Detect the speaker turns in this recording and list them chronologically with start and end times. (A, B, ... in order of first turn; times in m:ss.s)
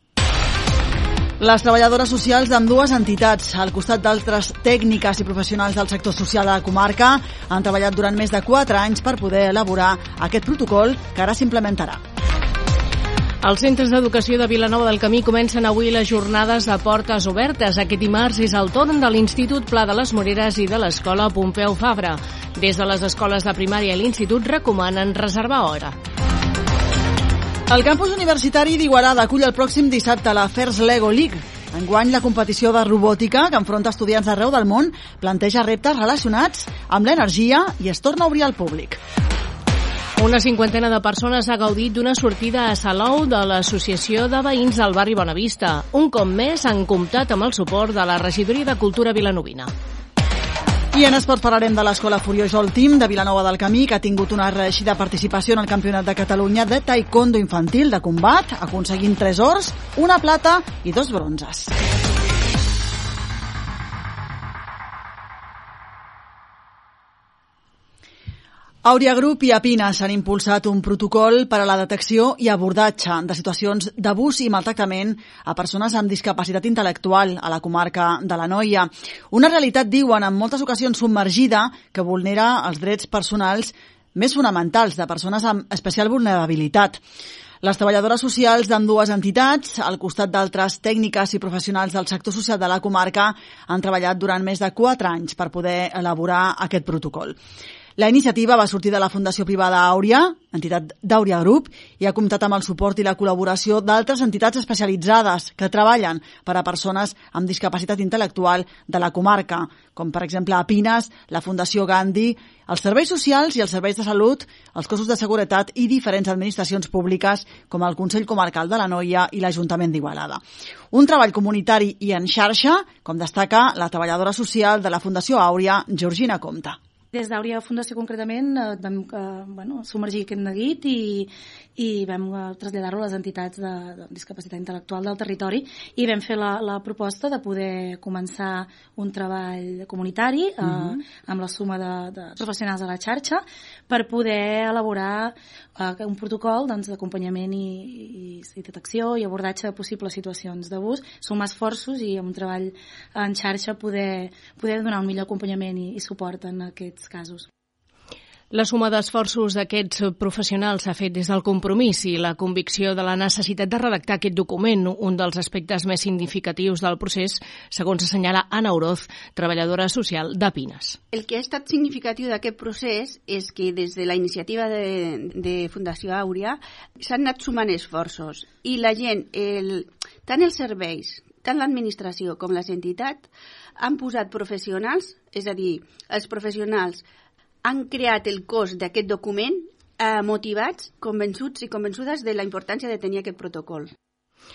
0:01.4-0:12.0 A
0:13.4-0:26.0 B
0:27.7-0:39.0 A
0:40.2-0:49.7 B
0:50.9-1:01.7 A
1:08.8-1:27.0 A
1:27.6-1:37.4 A
1:38.0-2:00.4 A
2:00.9-2:06.8 A
2:07.1-2:37.5 C
2:38.5-2:51.0 B
2:51.1-3:03.3 D
3:03.8-3:07.0 D
3:07.6-3:13.9 D